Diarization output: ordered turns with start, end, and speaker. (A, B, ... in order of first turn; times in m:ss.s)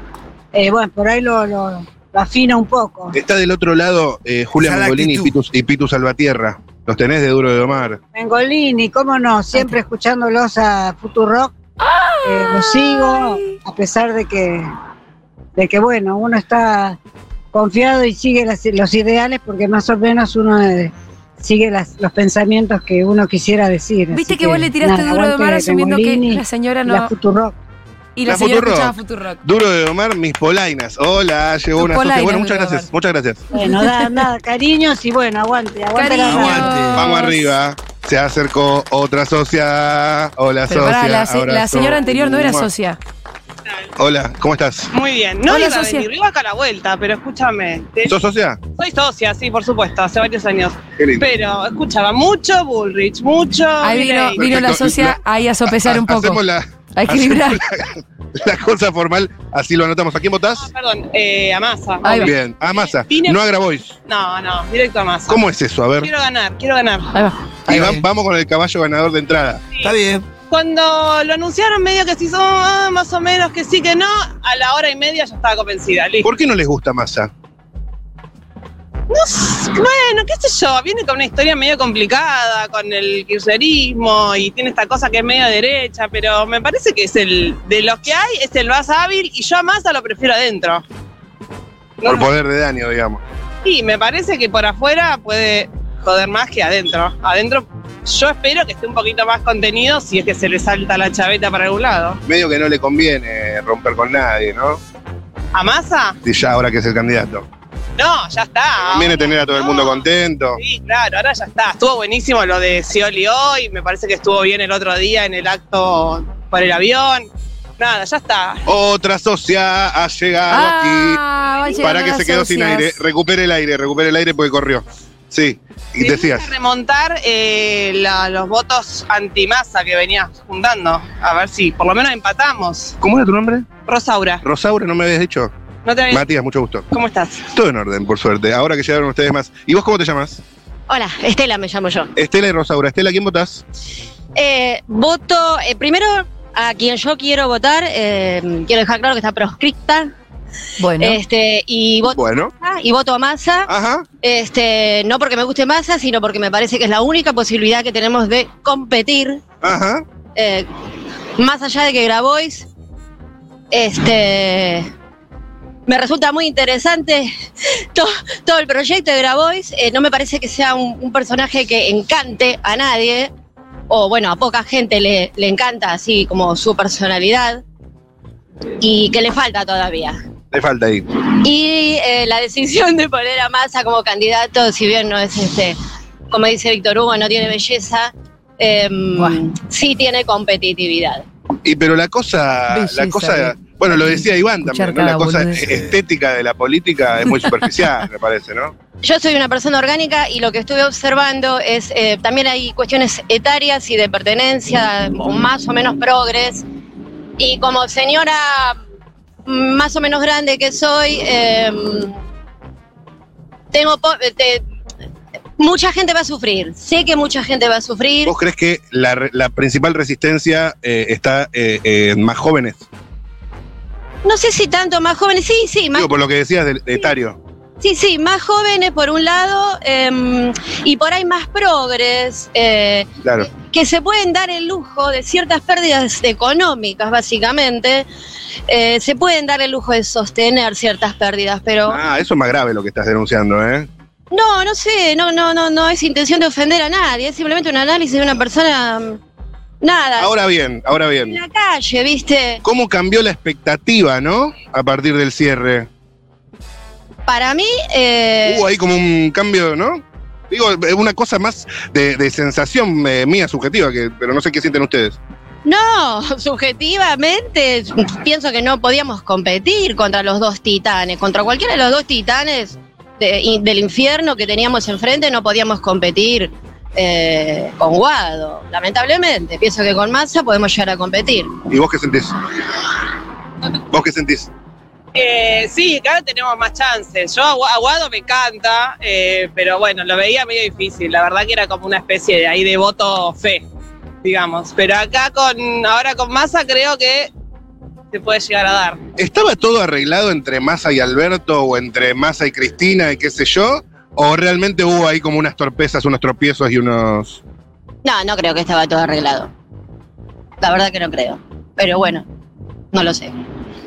0:00.5-0:03.2 A
0:03.1-0:08.0 B
0:04.6-0:05.4 C
0:08.1-0:11.5 A
0:09.5-0:09.8 D
0:11.8-0:13.6 D
0:12.2-0:14.7 A
0:15.6-0:17.0 A
0:17.5-0:27.6 A
0:24.1-0:27.1 D
0:28.2-0:29.4 D
0:28.2-0:33.5 B
0:31.8-0:32.9 D
0:33.5-0:36.9 A
0:33.5-0:34.3 D
0:35.9-0:37.5 D
0:36.2-0:37.1 C
0:36.9-0:42.7 B
0:40.7-0:43.0 D
0:44.0-0:44.9 B
0:44.9-0:48.2 E
0:45.5-0:46.1 D
0:48.1-0:48.6 B
0:48.8-0:54.8 E
0:51.0-0:51.2 B
0:53.8-0:56.4 D
0:54.4-1:00.7 B
0:57.0-0:57.6 D
1:00.6-1:03.5 E
1:02.0-1:02.3 D
1:02.1-1:04.0 B
1:04.0-1:05.4 E
1:05.3-1:06.1 B
1:06.0-1:07.2 E
1:07.1-1:07.9 D
1:07.7-1:09.6 B
1:07.7-1:08.0 C
1:09.8-1:10.3 C
1:10.5-1:16.3 E
1:16.2-1:17.3 B
1:19.1-1:30.8 E
1:32.0-1:32.3 E
1:32.0-1:33.2 B
1:33.6-1:42.2 E
1:42.3-1:44.8 B
1:45.5-1:46.2 E
1:46.2-1:47.4 B
1:48.0-1:58.6 E
1:48.8-1:50.6 B
1:58.7-2:01.2 B
2:00.5-2:03.0 D
2:01.8-2:06.5 B
2:06.0-2:13.0 E
2:13.0-2:13.7 B
2:13.8-2:14.4 E
2:14.4-2:15.5 B
2:15.8-2:16.3 E
2:16.1-2:16.9 B
2:16.9-2:17.4 E
2:17.5-2:20.4 B
2:20.9-2:22.1 F
2:22.2-2:23.6 B
2:24.4-2:30.1 F
2:30.8-2:31.2 D
2:31.0-2:33.7 F
2:32.1-2:32.5 B
2:33.7-2:34.1 B
2:34.2-2:39.4 F
2:39.6-2:40.0 B
2:40.4-2:40.7 F
2:41.4-2:42.7 F
2:43.7-2:44.9 F
2:45.9-2:47.3 F
2:47.9-2:53.3 F
2:53.9-2:57.6 F
2:58.8-3:00.2 F
3:00.5-3:01.1 B
3:01.3-3:05.8 F
3:06.3-3:11.2 F
3:11.6-3:18.7 B
3:12.7-3:15.6 D
3:15.6-3:16.0 C
3:17.3-3:17.7 D
3:19.0-3:26.6 F
3:27.4-3:28.8 F
3:29.5-3:32.2 F
3:33.7-3:34.6 F
3:35.6-3:38.4 F
3:38.2-3:42.8 B
3:44.2-3:46.1 F
3:45.9-3:47.4 B
3:47.8-3:58.1 F
3:53.2-3:53.5 B
3:58.7-4:02.0 F
4:01.9-4:03.9 B
4:04.3-4:09.2 F
4:09.8-4:10.4 F
4:10.2-4:11.4 B
4:11.2-4:12.6 F
4:12.6-4:15.9 B
4:17.3-4:18.7 F
4:18.5-4:25.2 B
4:25.6-4:41.6 F
4:41.7-4:42.4 B
4:43.9-4:44.5 B
4:45.1-4:53.6 E
4:54.2-4:57.3 E
4:58.1-4:59.0 E
4:59.2-5:07.4 B
5:08.0-5:09.5 F
5:10.6-5:12.3 F
5:12.9-5:13.3 F